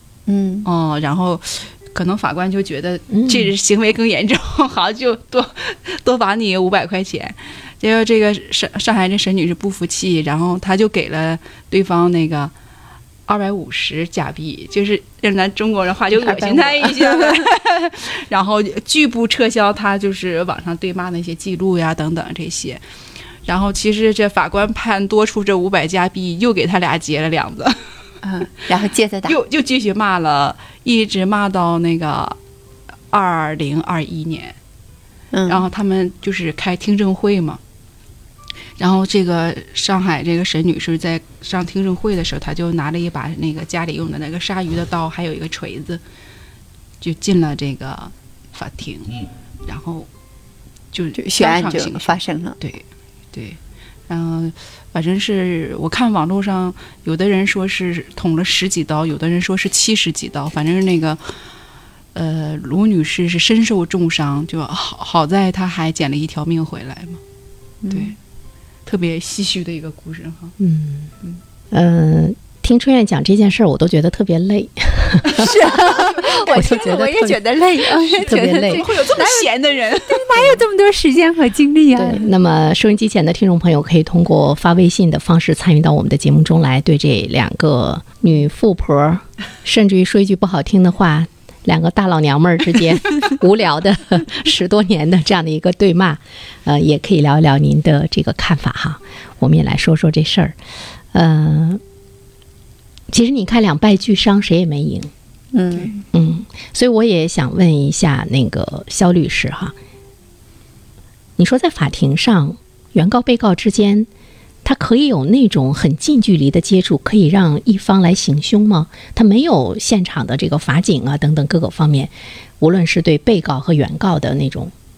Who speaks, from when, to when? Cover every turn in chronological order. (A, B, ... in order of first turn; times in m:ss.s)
0:00.3-0:00.7 A
0:00.6-0:12.5 B
0:03.1-0:03.4 C
0:13.3-0:22.8 B
0:16.2-0:17.4 A
0:23.4-0:27.8 B
0:28.2-0:29.4 A
0:29.2-0:32.4 B
0:33.1-0:34.6 B
0:35.3-0:35.7 A
0:35.5-0:37.6 B
0:38.8-0:46.0 B
0:47.0-0:50.1 B
0:50.9-1:01.2 B
0:51.2-0:52.6 A
1:02.1-1:07.2 B
1:07.8-1:08.1 A
1:07.9-1:08.2 B
1:08.8-1:10.5 B
1:10.6-1:11.1 C
1:11.7-1:18.8 C
1:15.4-1:19.5 A
1:18.3-1:20.6 B
1:20.1-1:22.3 A
1:22.0-1:40.5 C
1:41.1-1:41.8 C
1:43.1-1:45.1 C
1:45.5-1:46.0 A
1:46.1-1:49.7 C
1:51.4-1:54.1 C
1:54.6-2:04.7 C